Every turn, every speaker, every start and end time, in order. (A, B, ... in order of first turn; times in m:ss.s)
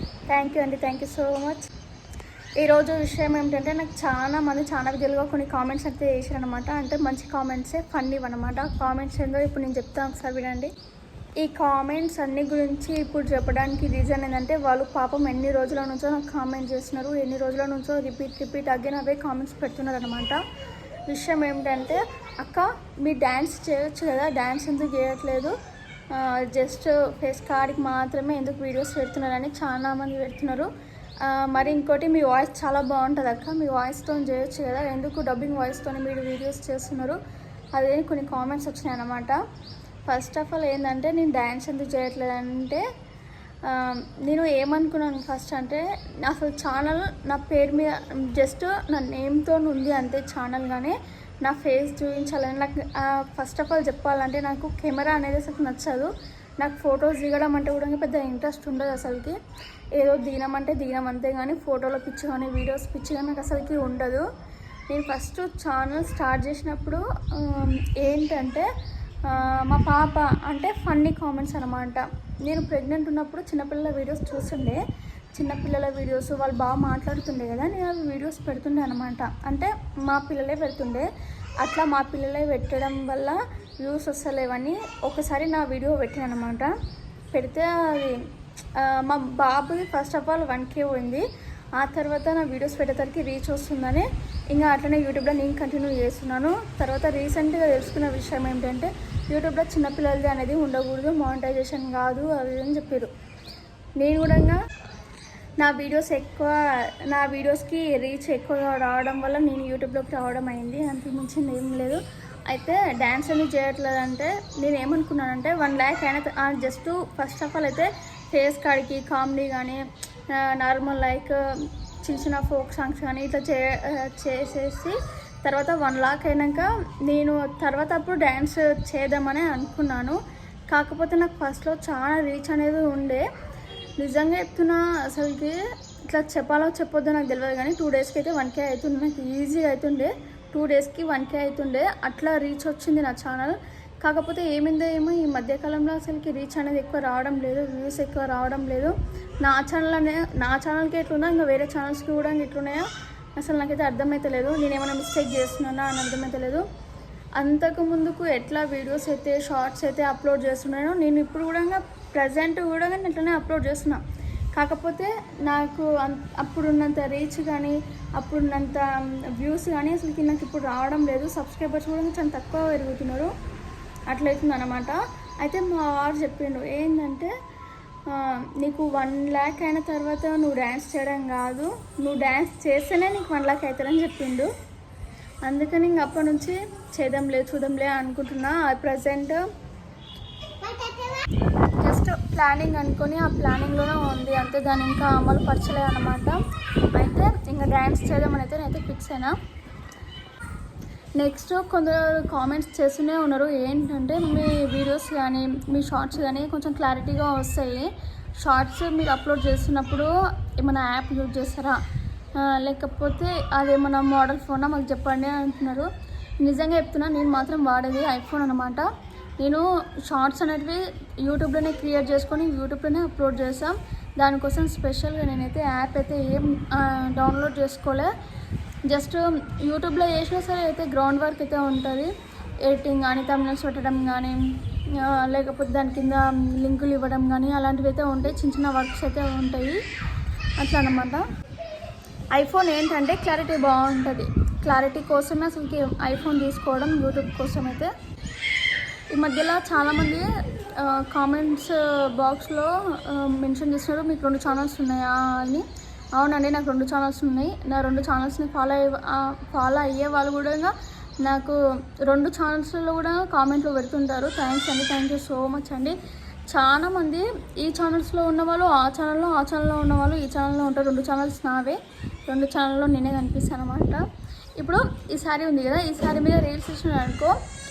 0:00.3-0:01.6 A
0:02.6-0:10.7 A
0:11.4-0:20.4 A
0:21.1-0:25.5 A
0:26.1-0:30.7 A
0:31.2-0:37.2 A
0:37.8-0:39.4 A
0:40.1-0:42.8 A
0:43.6-0:59.4 A
1:00.0-1:04.2 A
1:04.9-1:08.7 A
1:09.2-1:14.8 A
1:15.4-1:21.1 A
1:21.6-1:26.7 A
1:27.3-1:43.1 A
1:44.0-1:44.6 A
1:45.6-2:10.2 A
2:10.7-2:13.2 A
2:14.0-2:36.6 A
2:37.4-2:44.0 A
2:44.5-2:53.3 A
2:54.1-2:57.3 A
2:58.1-3:04.5 A
3:05.4-3:09.4 A
3:11.8-3:16.4 A
3:16.9-3:19.3 A
3:21.2-3:31.8 A
3:32.4-3:35.9 A
3:36.4-3:38.8 A
3:39.4-3:48.1 A
3:48.9-3:52.1 A
3:52.6-3:59.8 A
4:00.6-4:01.2 A
4:02.3-4:07.9 A
4:09.1-4:25.9 A
4:26.5-4:34.0 A
4:34.6-4:37.3 A